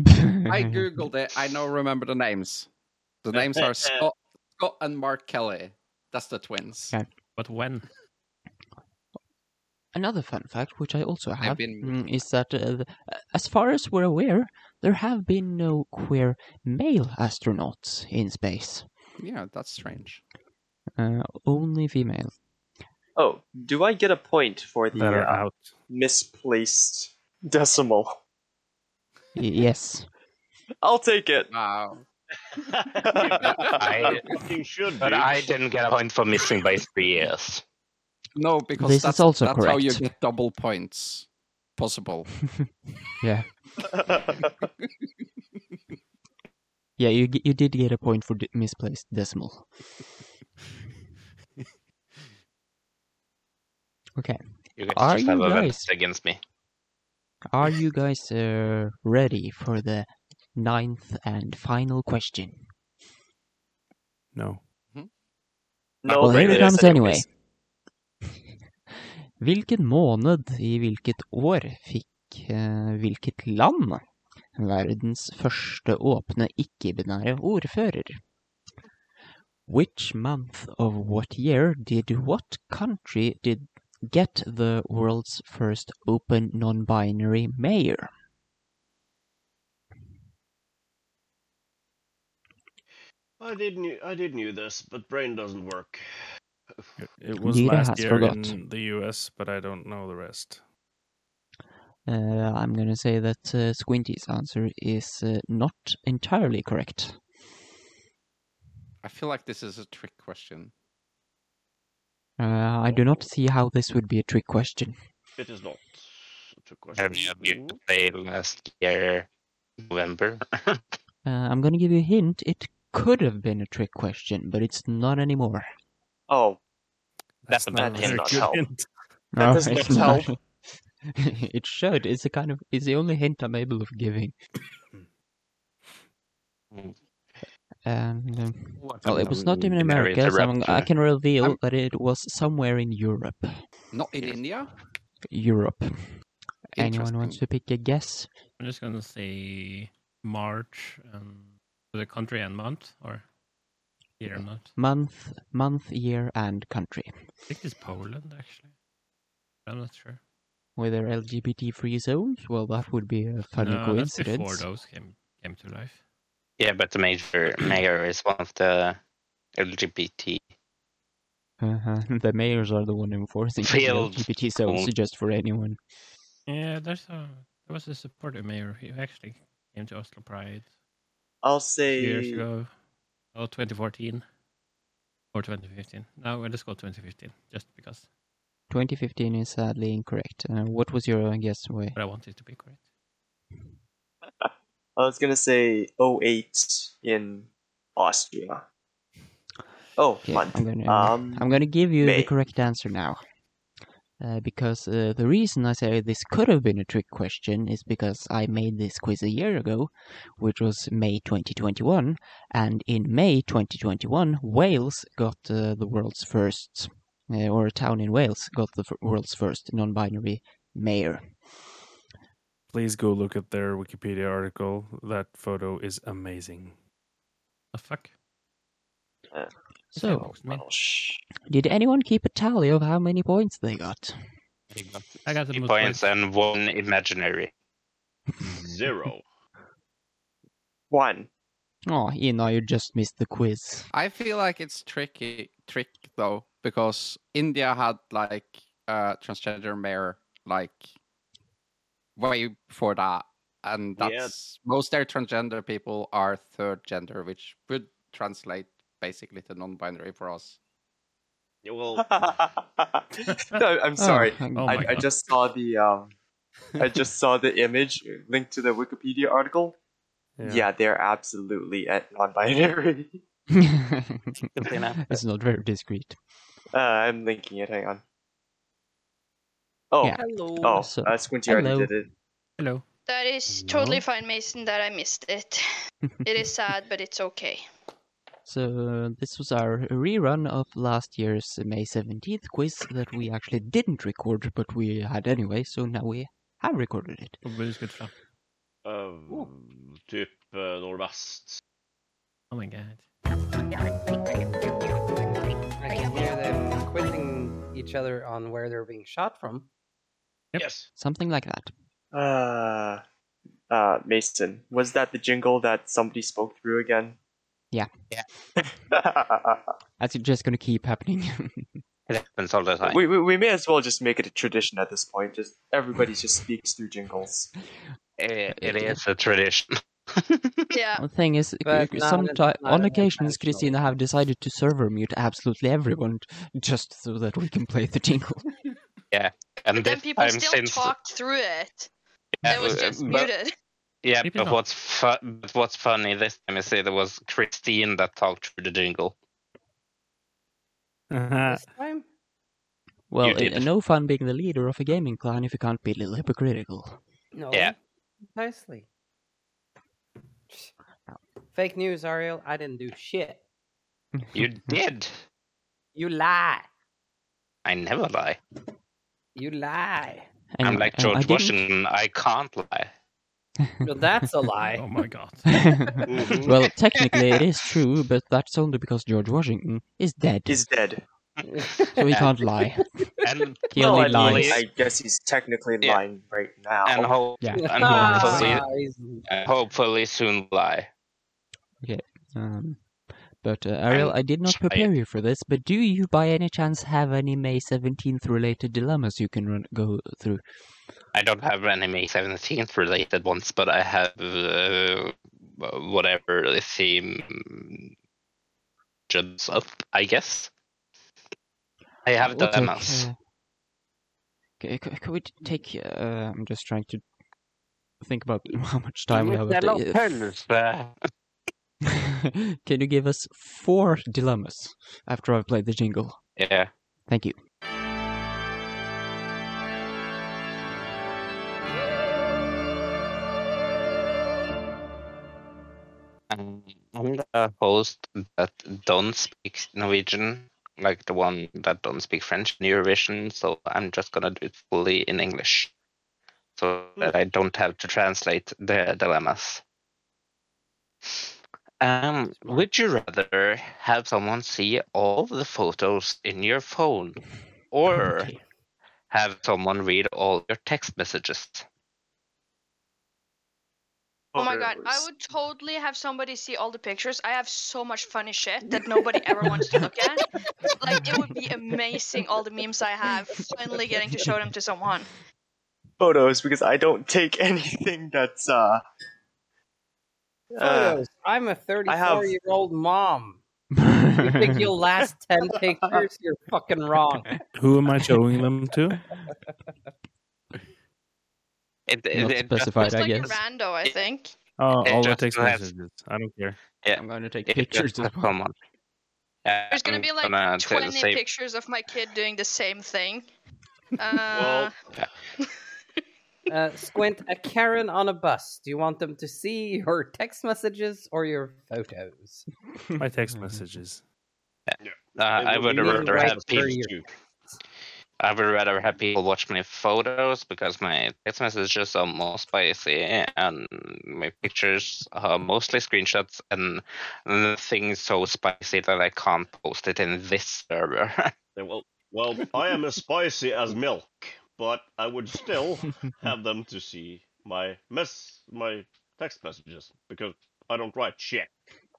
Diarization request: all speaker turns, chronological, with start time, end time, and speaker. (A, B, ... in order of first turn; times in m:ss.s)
0:00.2-0:00.7 A
0:00.5-0:02.7 B
0:03.2-0:07.0 B
0:03.3-0:04.0 C
0:07.4-0:07.9 D
0:09.9-0:18.9 A
0:11.4-0:11.9 B
0:19.2-0:20.2 B
0:21.0-0:22.3 A
0:23.2-0:28.2 E
0:24.9-0:25.8 F
0:29.3-0:30.1 A
0:30.8-0:31.5 E
0:31.5-0:32.0 B
0:32.7-0:35.5 C
0:33.1-0:34.1 E
0:33.8-0:34.2 G
0:35.0-0:37.6 G
0:38.4-0:42.4 B
0:38.8-0:40.1 A
0:43.2-0:43.6 A
0:44.0-0:44.5 E
0:47.0-0:49.8 A
0:54.2-0:55.9 A
0:54.8-0:56.4 G
0:57.5-1:02.6 A
1:04.3-1:04.6 F
1:06.0-1:07.3 E
1:06.1-1:06.8 C
1:06.2-1:07.3 A
1:06.3-1:06.7 F
1:09.4-1:14.0 A
1:14.5-1:18.2 A
1:19.6-1:28.1 A
1:33.4-1:36.0 C
1:37.0-1:40.6 F
1:37.4-1:38.6 A
1:42.1-1:47.2 A
1:49.0-1:50.7 B
1:52.4-1:55.0 A
1:52.9-1:53.2 C
1:55.4-1:57.8 C
1:56.9-1:59.3 G
1:59.8-2:00.8 G
2:01.2-2:05.7 A
2:06.3-2:06.6 E
2:07.4-2:08.9 F
2:07.5-2:08.5 G
2:07.8-2:08.7 E
2:09.3-2:10.4 A
2:09.4-2:10.3 E
2:11.1-2:14.3 A
2:17.8-2:23.6 A
2:18.8-2:20.9 G
2:23.9-2:24.7 B
2:25.2-2:28.3 A
2:26.8-2:27.4 B
2:28.6-2:33.3 D
2:34.2-2:34.7 D
2:34.3-2:37.3 A
2:37.5-2:38.7 D
2:39.6-2:40.2 D
2:40.8-2:44.7 A
2:43.6-2:46.0 D
2:46.6-2:49.0 G
2:49.6-2:50.4 G
2:51.6-2:55.8 A
2:53.6-2:54.9 G
2:56.5-3:00.7 D
3:01.4-3:02.4 E
3:01.9-3:02.8 D
3:03.3-3:04.2 D
3:05.3-3:08.1 D
3:08.7-3:12.0 A
3:11.9-3:12.8 D
3:14.4-3:18.6 E
3:20.0-3:22.3 E
3:20.2-3:23.2 A
3:24.2-3:41.7 A
3:42.7-3:46.8 F
3:47.7-3:48.1 D
3:49.3-3:51.2 E
3:49.9-3:50.6 D
3:50.0-3:50.4 A
3:51.5-3:54.2 A
3:54.7-3:57.5 G
3:55.2-3:56.0 D
3:58.4-3:59.2 C
4:00.9-4:01.3 E
4:01.8-4:03.9 A
4:03.9-4:10.9 B
4:12.2-4:20.6 B
4:14.0-4:14.3 C
4:21.6-4:22.0 C
4:21.9-4:26.1 E
4:24.0-4:25.0 A
4:24.5-4:25.1 D
4:26.8-4:29.8 E
4:30.4-4:30.7 F
4:30.4-4:33.1 E
4:33.5-4:36.2 A
4:34.5-4:35.0 G
4:36.7-4:38.0 E
4:39.9-4:42.1 E
4:40.0-4:42.0 A
4:40.2-4:40.8 H
4:42.6-4:42.8 D
4:43.1-4:45.6 I
4:43.7-4:44.0 F
4:46.2-4:47.6 I
4:48.4-4:57.4 A
4:57.4-4:58.1 D
4:58.8-5:01.6 C
5:02.5-5:03.0 D
5:05.8-5:09.7 H
5:10.6-5:10.9 C
5:11.0-5:11.7 A
5:12.1-5:13.0 E
5:13.7-5:17.2 E
5:18.9-5:19.7 E
5:20.0-5:21.8 A
5:22.1-5:23.0 G
5:22.8-5:27.5 E
5:28.2-5:30.6 G
5:28.5-5:29.0 A
5:30.7-5:31.0 I
5:31.0-5:38.5 A
5:31.6-5:33.9 H
5:39.1-5:40.9 G
5:39.7-5:41.9 I
5:42.4-5:43.3 G
5:42.4-5:43.5 I
5:44.0-5:49.2 G
5:44.2-5:44.6 D
5:51.1-5:51.6 F
5:51.4-5:52.0 H
5:53.1-5:57.0 A
5:53.2-5:53.7 G
5:57.3-5:57.8 H
5:58.3-5:58.8 H
6:01.5-6:03.4 H
6:04.3-6:05.2 G
6:05.9-6:06.7 H
6:07.6-6:08.4 G
6:09.3-6:10.3 H
6:10.5-6:11.6 A
6:10.6-6:12.9 G
6:13.8-6:14.8 H
6:14.6-6:15.8 D
6:15.5-6:20.7 A
6:16.1-6:16.5 C
6:20.5-6:21.0 E
6:21.4-6:22.2 H
6:21.9-6:22.9 A
6:23.2-6:24.6 G
6:23.7-6:24.6 A
6:23.7-6:27.1 E
6:26.8-6:28.7 G
6:27.4-6:28.6 A
6:27.6-6:29.3 H
6:29.2-6:30.9 G
6:31.8-6:40.4 A
6:33.9-6:34.9 G
6:41.1-6:47.9 G
6:49.1-6:50.5 G
6:52.0-6:53.1 G
6:52.2-6:53.2 A
6:54.6-6:57.0 A
6:58.0-7:00.1 A
6:59.1-7:01.0 G
7:02.3-7:06.2 A
7:06.4-7:06.7 G
7:07.1-7:07.4 A
7:16.3-7:25.7 G
7:26.6-7:29.6 G
7:31.8-7:38.3 G
7:39.1-7:41.6 G
7:44.3-7:45.0 E
7:44.4-7:50.2 I
7:49.1-7:49.8 E
7:50.8-7:55.1 I
7:56.0-7:58.8 E
8:00.5-8:01.0 E
8:00.6-8:03.4 H
8:01.8-8:02.3 E
8:03.8-8:04.7 A
8:04.2-8:07.4 H
8:05.5-8:06.0 E
8:07.5-8:09.0 F
8:11.9-8:13.9 G
8:12.1-8:13.4 A
8:12.8-8:14.3 I
8:14.6-8:16.6 F
8:14.8-8:15.6 G
8:16.8-8:18.5 G
8:16.9-8:18.3 A
8:19.4-8:21.2 G
8:19.7-8:23.3 I
8:24.0-8:24.7 I
8:24.3-8:24.7 C
8:26.5-8:32.4 H
8:33.0-8:34.0 F
8:33.3-8:33.6 A
8:34.7-8:36.8 G
8:34.8-8:37.0 C
8:35.8-8:36.9 H
8:38.2-8:51.3 G
8:51.6-9:01.5 C